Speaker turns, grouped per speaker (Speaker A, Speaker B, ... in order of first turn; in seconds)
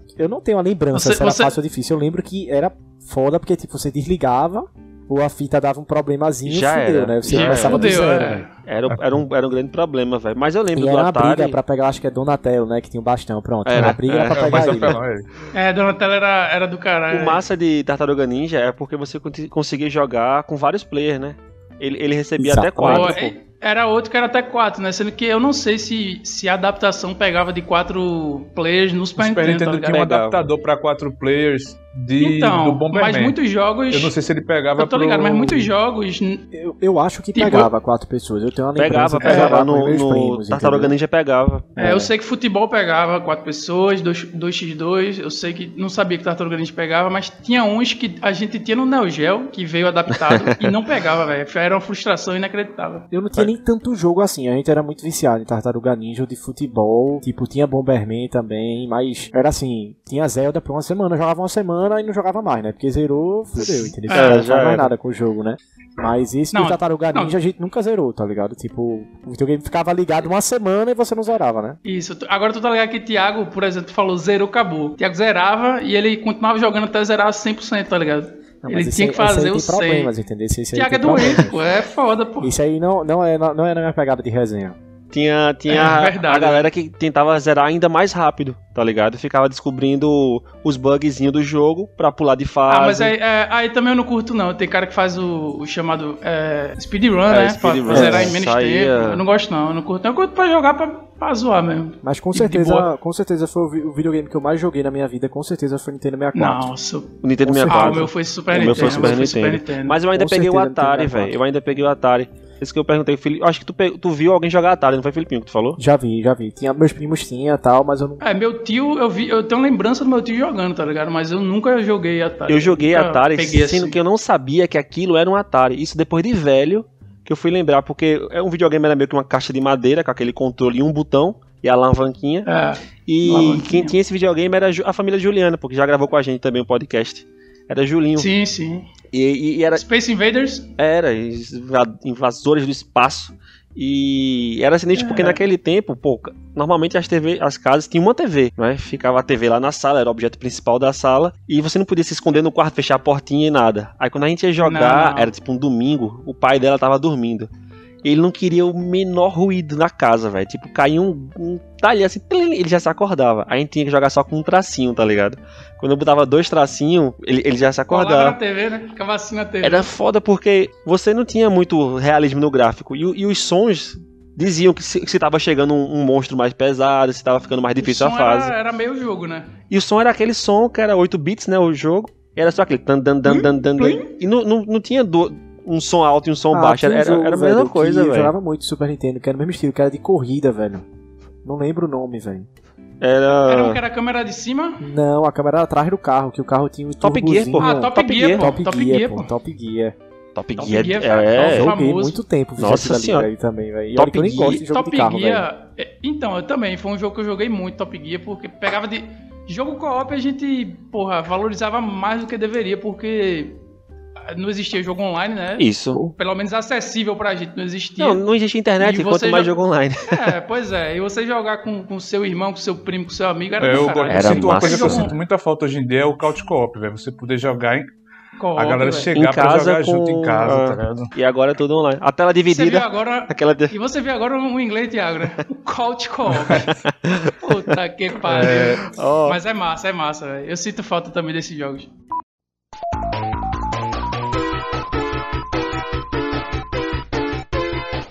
Speaker A: 0.2-8.4, 10.7-15.0, 22.4-23.2, 36.5-40.9, 41.8-42.1, 53.1-71.8, 78.6-81.6, 82.4-84.8, 97.9-98.3, 102.0-106.7, 107.4-109.3, 110.1-111.4, 115.8-118.2, 186.5-190.8, 191.4-192.5, 194.8-199.9, 201.4-205.5
Speaker B: 0.9-1.5, 7.3-8.5, 15.5-17.4, 22.8-30.0, 32.2-34.1, 34.8-36.4, 37.3-37.7, 39.2-39.5, 41.8-53.1, 64.1-64.4, 66.5-67.3, 71.8-80.1, 80.7-82.5, 85.7-86.7, 92.7-102.9, 106.3-110.0, 118.2-124.0, 132.4-133.9, 138.2-138.9, 139.7-140.7, 144.9-145.4, 154.6-155.3, 167.9-169.9, 177.8-179.5, 183.2-184.1, 193.5-194.8, 197.6-199.3, 200.6-202.2, 204.7-213.6, 214.3-218.2, 218.8-219.6, 220.1-225.1, 228.4-229.1, 232.5-236.8, 237.4-241.9
Speaker C: 6.5-8.0, 8.6-11.6, 13.6-14.9, 17.1-23.3, 29.9-30.4, 38.8-41.7, 50.1-50.7, 63.6-64.9, 85.1-93.1, 97.3-99.2, 107.2-115.8, 122.5-132.5, 133.1-138.3, 139.1-139.8, 140.8-157.5, 158.0-168.4, 169.6-178.5, 179.7-188.3, 193.0-193.8, 197.0-198.5, 200.3-201.7, 202.6-203.3, 203.9-204.6, 215.6-216.1, 218.0-220.3, 224.1-225.1, 229.1-233.7, 236.8-237.3, 238.4-239.4
Speaker D: 8.9-9.2, 13.7-15.3, 29.2-33.4, 33.9-35.7, 223.6-227.9, 228.6-231.1, 236.4-236.7, 238.2-238.8